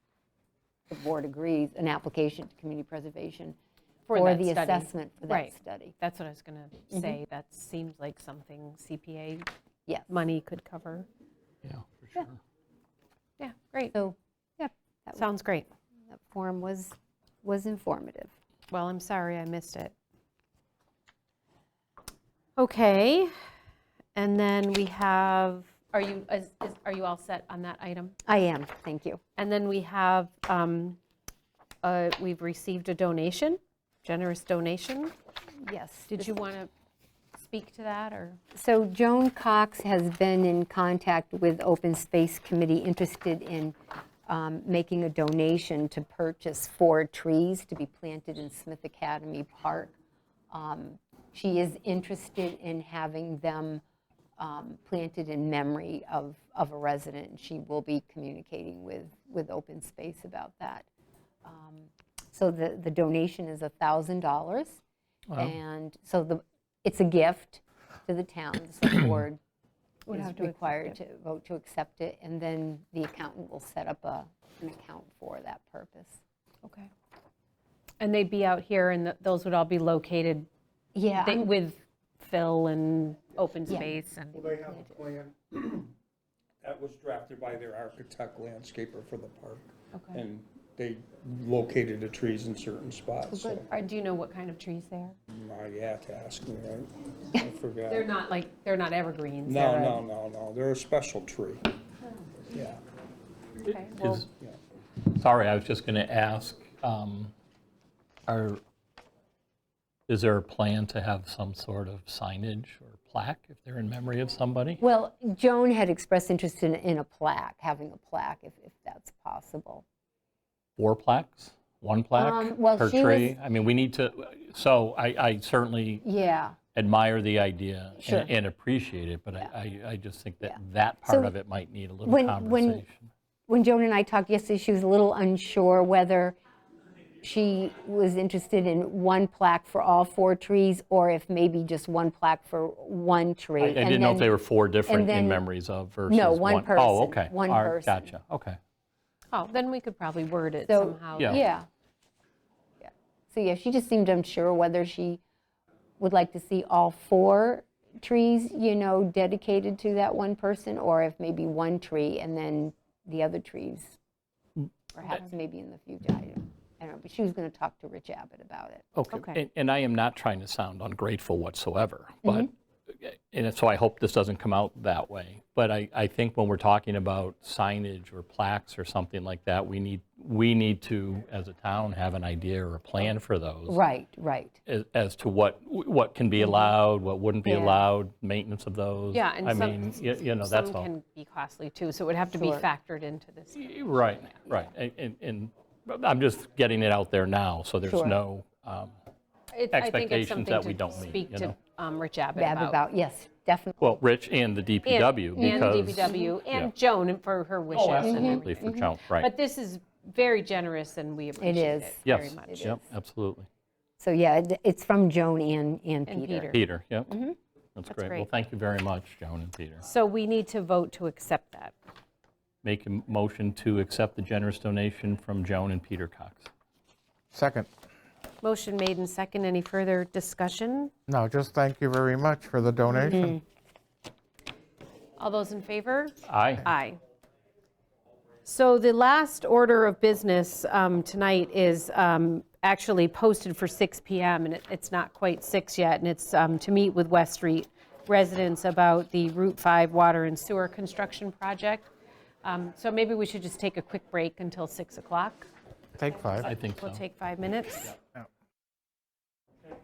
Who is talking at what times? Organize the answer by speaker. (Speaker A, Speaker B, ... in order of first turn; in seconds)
Speaker A: 0.9-3.6, 4.1-5.9, 9.9-10.1, 13.9-15.2, 16.1-18.3, 28.2-29.2, 35.6-36.3, 38.5-43.7, 44.3-49.9, 50.5-53.8, 54.4-60.9, 61.4-64.8, 65.3-69.4, 70.1-76.2, 80.9-81.5, 83.7-84.0, 84.5-85.0, 93.3-93.7, 114.8-119.8, 122.2-123.3, 126.0-126.5, 128.0-128.3, 130.4-131.3, 132.0-132.8, 133.5-136.4, 137.2-144.3, 144.9-145.4, 146.1-148.1, 150.7-151.7, 152.8-155.2, 156.0-164.0, 164.9-168.8, 183.7-184.6, 186.4-186.7, 187.4-187.8, 192.3-192.6, 197.8-198.2, 202.3-204.0, 205.3-206.3, 208.0-208.9, 211.4-212.8, 214.0-216.5, 217.1-217.3, 233.1-233.4
Speaker B: 4.1-9.5, 10.1-11.1, 13.4-13.9, 15.1-15.7, 18.7-19.9, 22.6-23.3, 24.1-28.1, 29.4-31.0, 31.8-35.1, 36.1-36.7, 37.4-38.4, 70.1-71.0, 76.6-76.9, 78.0-80.5, 81.2-84.5, 89.9-90.2, 93.7-95.1, 97.9-100.0, 103.6-104.2, 149.3-151.4, 189.1-193.6, 199.5-202.8, 204.8-212.8, 216.1-216.6, 217.9-218.3, 219.8-221.7, 228.4-230.9, 235.2-237.0, 238.4-251.9, 252.4-255.5, 256.4-257.9
Speaker C: 11.6-12.4, 65.3-65.5, 103.6-104.3, 105.0-107.3, 108.3-108.6, 110.1-114.8, 120.8-126.0, 126.7-133.1, 143.6-148.6, 168.9-183.8, 184.7-190.9, 193.5-198.9, 199.7-201.6, 203.8-206.7, 207.7-209.3, 212.0-213.5, 216.5-217.1, 217.7-219.8, 222.6-226.5, 236.2-236.7, 256.4-257.0
Speaker D: 84.3-85.2, 227.3-227.7, 231.1-233.4, 256.0-256.5
Speaker E: 85.4-85.9, 86.6-93.7, 95.3-98.1, 99.5-101.6, 102.5-102.8